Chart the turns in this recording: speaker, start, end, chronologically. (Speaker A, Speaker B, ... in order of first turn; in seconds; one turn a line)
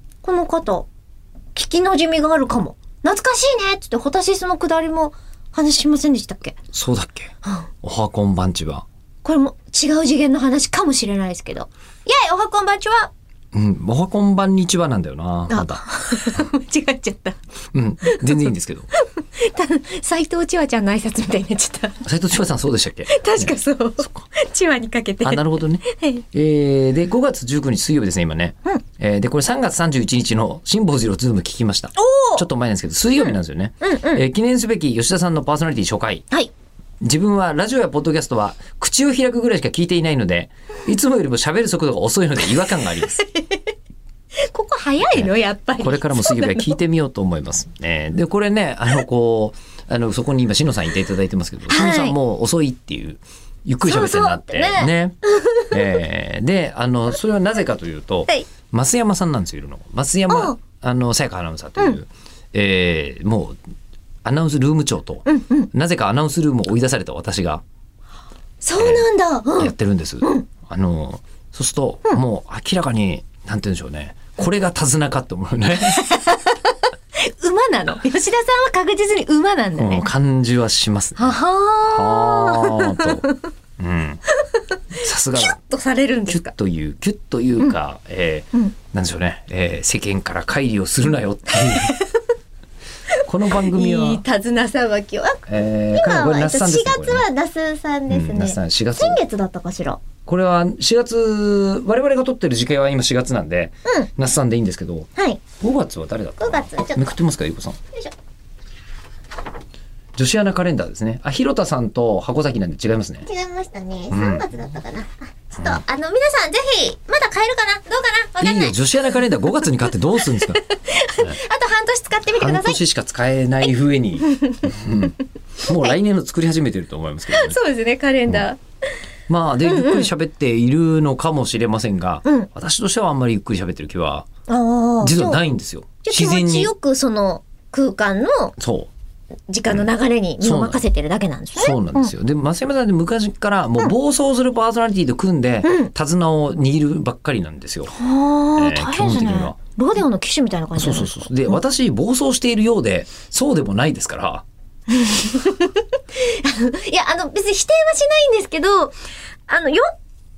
Speaker A: 0.2-0.9
Speaker A: 1.5-6.6
Speaker B: 6.7-8.8
Speaker A: 9.2-13.1
Speaker B: 13.5-15.8
Speaker A: 15.5-17.4
Speaker B: 17.7-18.9
Speaker A: 18.1-22.0
Speaker B: 22.0-23.5
Speaker A: 23.1-26.2
Speaker B: 25.2-36.2
Speaker A: 32.0-32.4
Speaker A: 33.8-34.2
Speaker B: 37.0-43.2
Speaker A: 43.0-43.6
Speaker A: 44.4-46.8
Speaker B: 45.1-63.6
Speaker A: 51.7-52.2
Speaker A: 53.8-56.0
Speaker A: 60.3-60.6
Speaker B: 64.2-67.6
Speaker A: 65.3-65.7
Speaker A: 68.6-70.5
Speaker B: 68.8-69.0
Speaker B: 69.6-76.0
Speaker A: 75.8-80.1
Speaker B: 79.8-83.3
Speaker A: 81.2-83.4
Speaker B: 83.8-84.2
Speaker B: 85.0-85.6
Speaker A: 85.3-86.5
Speaker B: 86.3-91.9
Speaker A: 91.5-92.2
Speaker B: 93.2-94.2
Speaker A: 93.5-100.0
Speaker B: 95.5-97.2
Speaker B: 98.1-99.2
Speaker B: 100.2-107.8
Speaker A: 105.2-105.4
Speaker A: 106.4-107.1
Speaker B: 110.2-113.3
Speaker A: 113.2-119.2
Speaker B: 114.1-114.5
Speaker B: 118.4-120.6
Speaker A: 120.2-122.8
Speaker B: 122.3-127.6
Speaker A: 124.2-124.7
Speaker A: 127.3-128.6
Speaker B: 129.3-134.3
Speaker A: 129.6-130.1
Speaker A: 134.5-135.4
Speaker B: 135.0-136.7
Speaker A: 136.0-138.6
Speaker B: 138.6-138.9
Speaker A: 139.5-142.1
Speaker B: 140.4-140.8
Speaker B: 141.5-147.9
Speaker A: 145.6-145.9
Speaker A: 147.9-151.6
Speaker B: 148.6-149.6
Speaker B: 150.8-154.4
Speaker A: 154.9-159.9